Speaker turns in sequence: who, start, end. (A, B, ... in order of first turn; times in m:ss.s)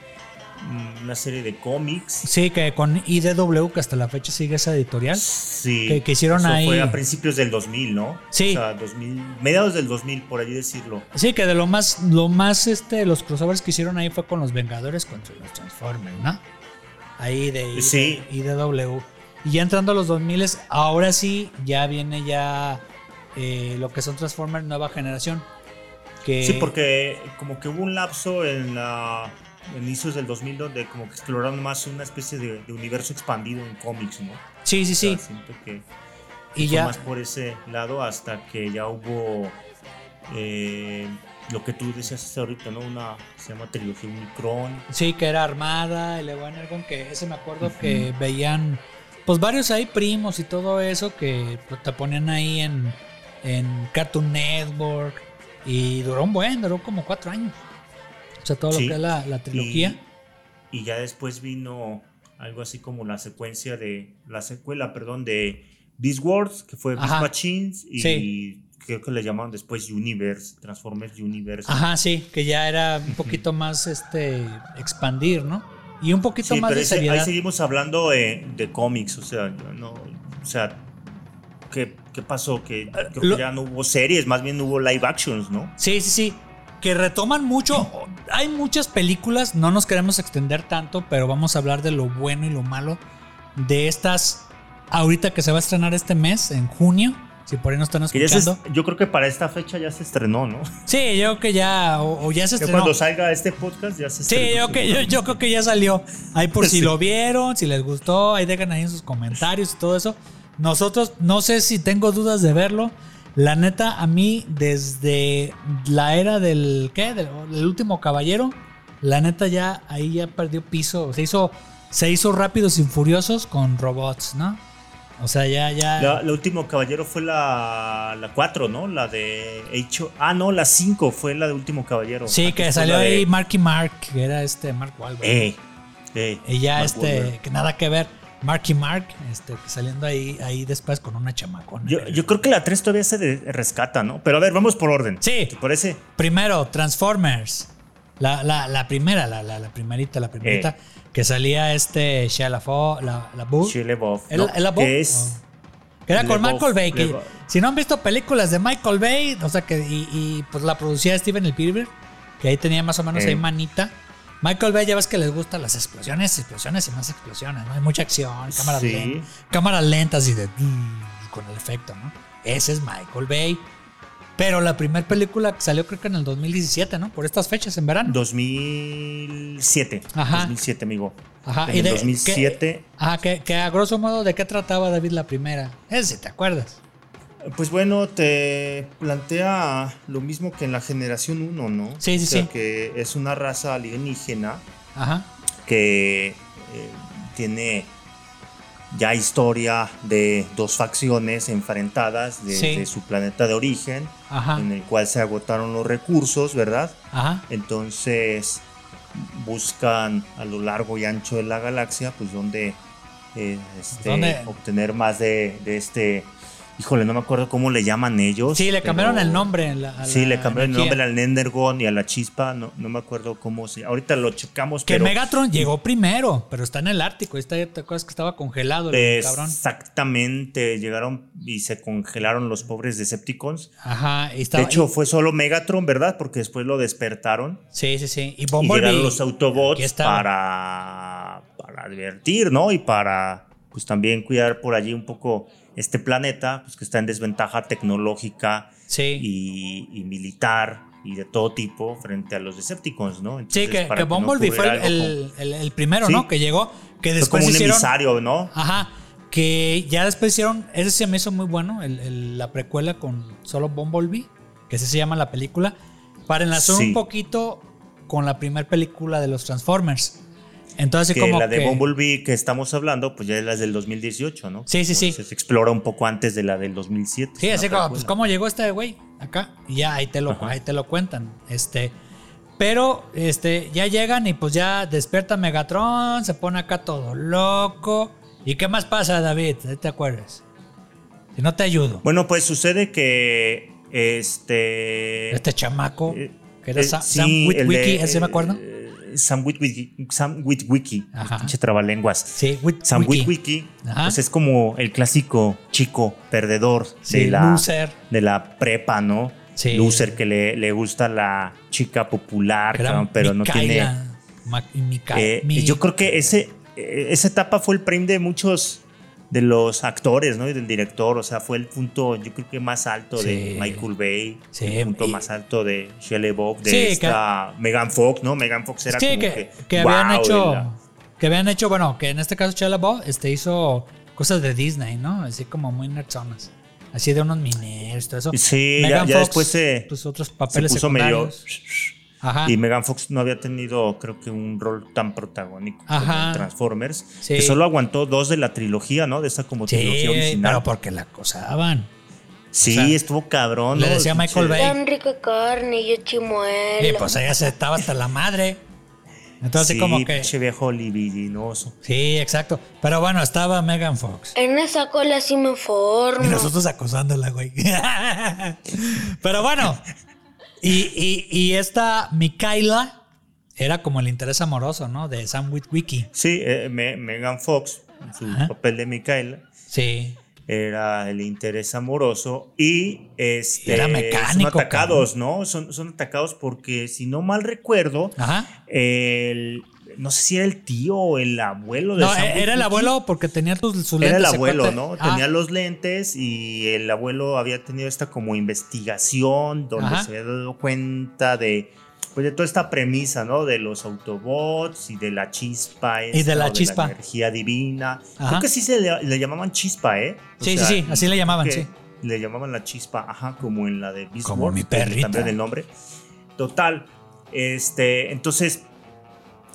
0:00.6-0:02.3 A
0:02.2-0:05.3 B
0:05.1-0:11.1 A
0:05.8-0:07.0 B
0:08.3-0:08.6 B
0:11.1-0:16.4 B
0:17.2-0:22.8 B
0:17.7-0:18.3 A
0:23.3-0:25.5 B
0:26.2-0:26.7 B
0:26.4-0:35.8 A
0:34.6-0:35.2 B
0:36.5-0:37.0 B
0:36.6-0:39.6 A
0:40.3-0:44.9 A
0:44.9-0:57.6 B
0:47.6-0:48.1 A
0:58.4-1:00.0 B
0:58.7-1:00.0 A
1:00.7-1:11.8 A
1:07.0-1:07.3 B
1:08.0-1:08.3 B
1:11.6-1:17.3 B
1:13.1-1:13.4 A
1:16.4-1:20.8 A
1:21.7-1:25.7 A
1:23.0-1:23.4 B
1:25.8-1:33.0 B
1:33.5-1:38.6 B
1:38.1-1:40.7 A
1:40.9-1:42.9 B
1:42.6-1:45.4 A
1:44.2-2:04.6 B
1:46.6-1:46.9 A
2:05.2-2:06.2 B
2:06.0-2:13.3 A
2:12.3-2:15.5 B
2:15.2-2:15.6 A
2:16.1-2:17.4 A
2:16.4-2:22.4 B
2:21.8-2:26.0 A
2:25.2-2:25.5 B
2:26.2-2:33.8 B
2:30.4-2:30.7 A
2:33.6-2:35.4 A
2:34.3-2:35.4 B
2:36.1-2:53.7 B
2:36.1-2:37.3 A
2:43.1-2:43.4 A
2:48.5-2:49.3 A
2:54.4-2:58.2 B
2:58.0-3:02.8 A
3:00.1-3:00.5 B
3:01.4-3:06.8 B
3:07.4-3:14.6 A
3:12.0-3:12.5 B
3:14.9-3:15.3 B
3:15.6-3:17.9 A
3:18.9-3:32.8 A
3:22.5-3:22.9 B
3:24.3-3:24.7 B
3:27.1-3:27.4 B
3:33.3-3:45.7 A
3:33.9-3:34.5 B
3:38.5-3:41.0 B
3:44.8-3:49.6 B
3:48.9-3:53.7 A
3:53.8-3:54.9 B
3:54.5-3:57.6 A
3:57.7-4:00.3 B
3:58.6-4:15.2 A
4:08.9-4:09.3 B
4:13.5-4:17.9 B
4:16.0-4:16.3 A
4:17.2-4:18.5 A
4:18.5-4:25.7 B
4:26.3-4:30.2 B
4:26.5-4:27.0 A
4:30.8-4:31.8 B
4:31.1-4:38.1 A
4:34.7-4:35.2 B
4:37.4-4:42.0 B
4:40.3-4:40.5 A
4:42.6-4:50.4 B
4:51.3-4:52.0 B
4:52.0-4:55.4 A
4:55.3-4:58.6 B
4:56.1-5:13.9 A
5:01.1-5:01.5 B
5:02.3-5:03.3 B
5:03.8-5:04.2 B
5:07.0-5:08.0 B
5:09.6-5:10.2 B
5:12.7-5:16.2 B
5:15.1-5:30.7 A
5:23.2-5:23.8 B
5:24.5-5:25.2 B
5:26.6-5:27.2 B
5:28.9-5:41.4 B
5:38.3-5:39.9 A
5:40.5-5:50.6 A
5:42.2-5:42.6 B
5:45.9-5:46.5 B
5:47.2-5:47.6 B
5:49.7-5:51.9 B
5:52.5-5:54.7 A
5:52.6-5:53.0 B
5:53.7-5:54.8 B
5:54.5-5:57.1 C
5:56.8-5:58.6 B
5:59.4-6:00.3 B
5:59.6-6:01.8 A
6:01.8-6:04.3 B
6:04.3-6:06.5 C
6:06.2-6:09.9 B
6:10.6-6:13.0 B
6:13.6-6:16.1 B
6:16.1-6:19.5 A
6:19.7-6:20.2 B
6:20.4-6:32.9 A
6:23.6-6:25.0 B
6:28.2-6:28.5 B
6:32.0-6:35.2 B
6:34.0-6:55.7 A
6:39.8-6:40.1 B
6:46.1-6:46.9 B
6:48.2-6:48.5 B
6:50.4-6:51.7 B
6:54.2-6:55.3 B
6:56.4-6:58.7 A